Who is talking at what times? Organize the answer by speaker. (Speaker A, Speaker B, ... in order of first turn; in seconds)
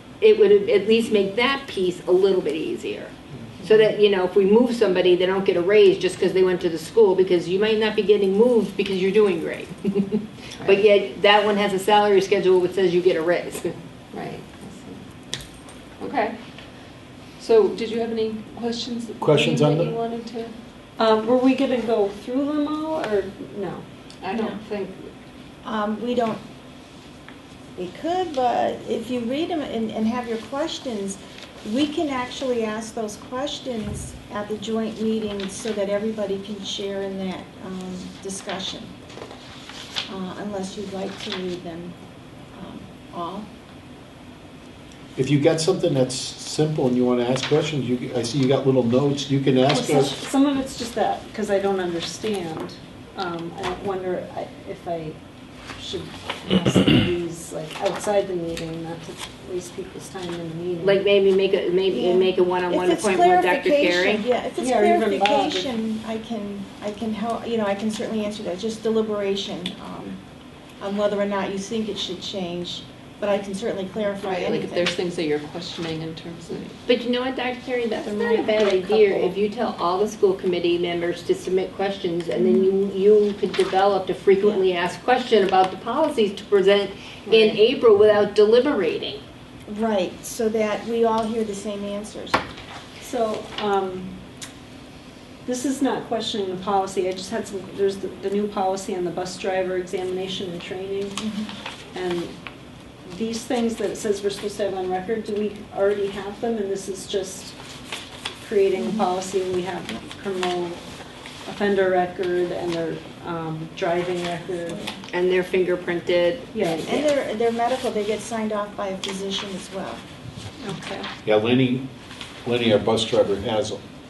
Speaker A: 0.2-13.7, 60.8-64.2, 76.8-89.2, 115.1-117.1
Speaker B: 14.1-15.0, 16.0-16.3, 17.4-20.5, 24.2-24.9, 74.2-76.7, 87.3-87.6
Speaker C: 19.2-20.0, 45.1-50.1, 121.2-121.8, 122.4-123.8
Speaker D: 21.0-23.8, 49.8-55.2, 55.8-61.0, 64.6-65.8, 78.0-79.3, 93.0-94.1, 95.4-101.2, 101.9-102.3, 103.0-107.5, 108.4-110.8, 111.5-114.8, 116.5-116.8, 120.6-121.0
Speaker E: 24.3-24.6, 25.6-26.4, 27.8-38.9, 40.1-42.0, 42.5-43.5, 49.7-50.1, 61.9-70.2, 70.8-74.9, 82.3-82.7, 89.7-92.4, 101.2-101.5, 108.8-109.1, 114.5-115.0, 116.8-120.0